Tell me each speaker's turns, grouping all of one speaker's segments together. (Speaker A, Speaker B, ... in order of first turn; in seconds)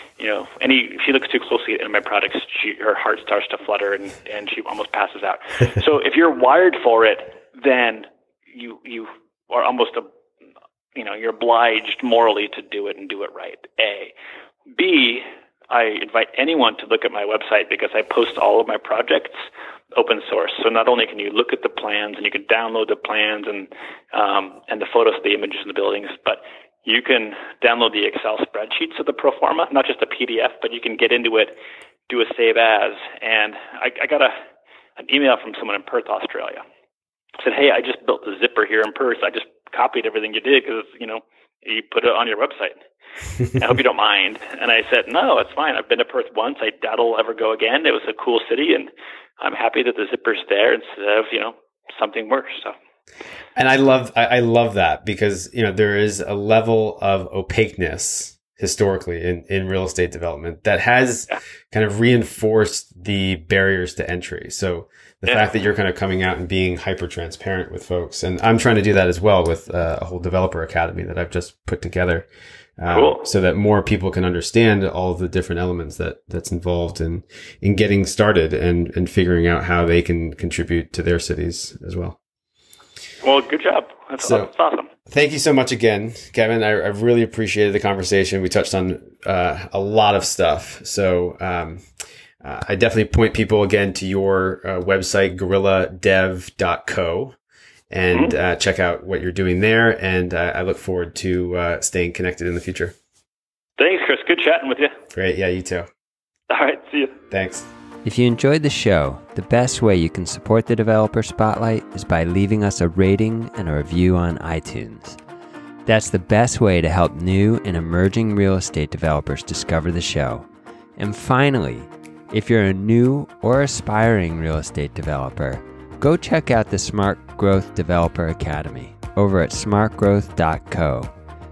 Speaker A: 0.2-10.1, 10.9-14.1, 14.8-31.6, 32.1-34.4, 35.0-36.6, 37.4-42.8, 43.5-52.8, 72.9-73.2, 83.2-84.9, 103.8-105.0, 106.5-107.2
Speaker B: 53.6-72.3, 72.8-82.2, 84.2-84.5, 85.1-91.8, 92.4-97.4, 97.9-103.0, 105.1-105.9, 107.3-107.7
Speaker C: 108.0-115.2, 115.9-131.1